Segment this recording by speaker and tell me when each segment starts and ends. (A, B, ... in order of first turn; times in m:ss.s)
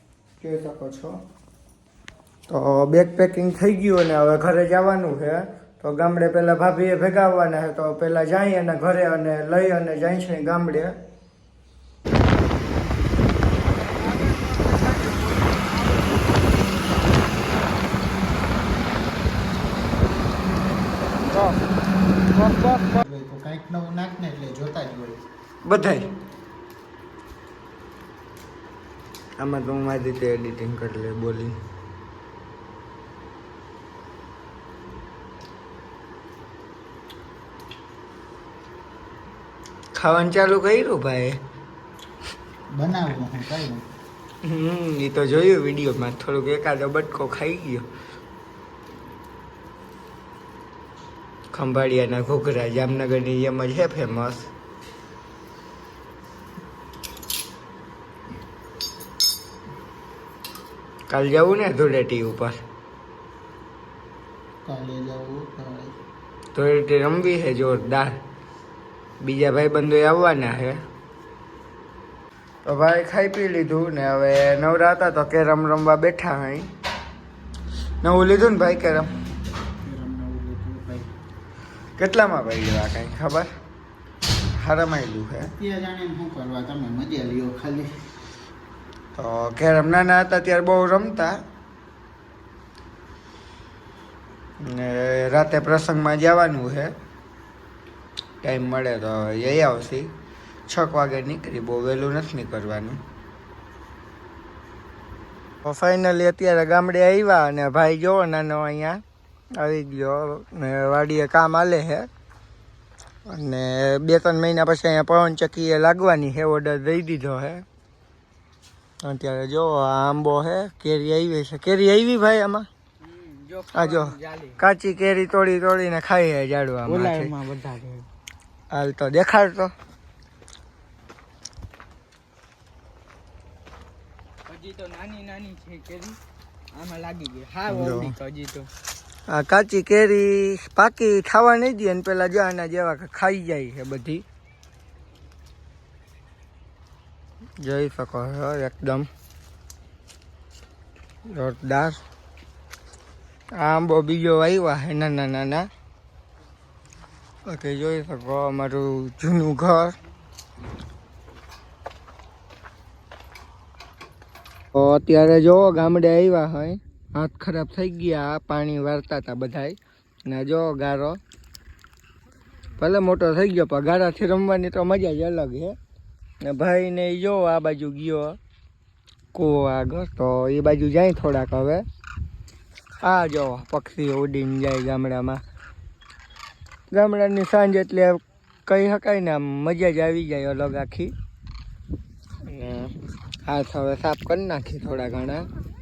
0:00.4-0:01.2 A
0:02.5-0:10.9 A
0:22.4-0:25.2 B
0:25.6-0:26.1 A
0:29.4-0:31.5 A
0:39.9-0:41.4 A
0:42.7-0:43.8 B
0:44.4-0:47.8 A
0:51.5-0:54.5 A
1:01.1-1:02.6 A
1:04.6-1:05.9 B
1:06.5-1:08.1 A
1:09.2-1:10.8 A
1:12.6-1:16.7 A
1:18.0-1:19.1 A
1:19.8-1:21.1 B
1:22.0-1:23.5 A
1:24.6-1:25.5 A
1:25.4-1:27.9 B
1:29.2-1:31.4 A
1:34.6-1:36.9 A
1:38.4-1:40.1 A
1:40.7-1:43.0 A
1:45.6-1:49.0 A
1:49.6-1:52.1 A
1:53.3-1:57.6 A
1:59.0-2:02.7 A
2:03.0-2:04.6 C
2:03.7-2:07.3 A
2:06.8-2:08.0 C
2:08.7-2:09.7 A
2:14.5-2:16.2 C
2:16.7-2:18.7 C
2:17.7-2:18.2 A
2:19.3-2:24.2 A
2:27.6-2:29.1 A
2:31.3-2:32.0 A
2:33.6-2:35.7 A
2:37.5-2:39.9 A
2:44.7-2:51.2 A
2:52.8-2:55.8 A
2:56.4-2:58.4 A
2:59.3-3:01.8 A
3:03.0-3:05.4 A
3:06.9-3:11.1 A
3:12.4-3:12.9 A
3:13.4-3:15.5 A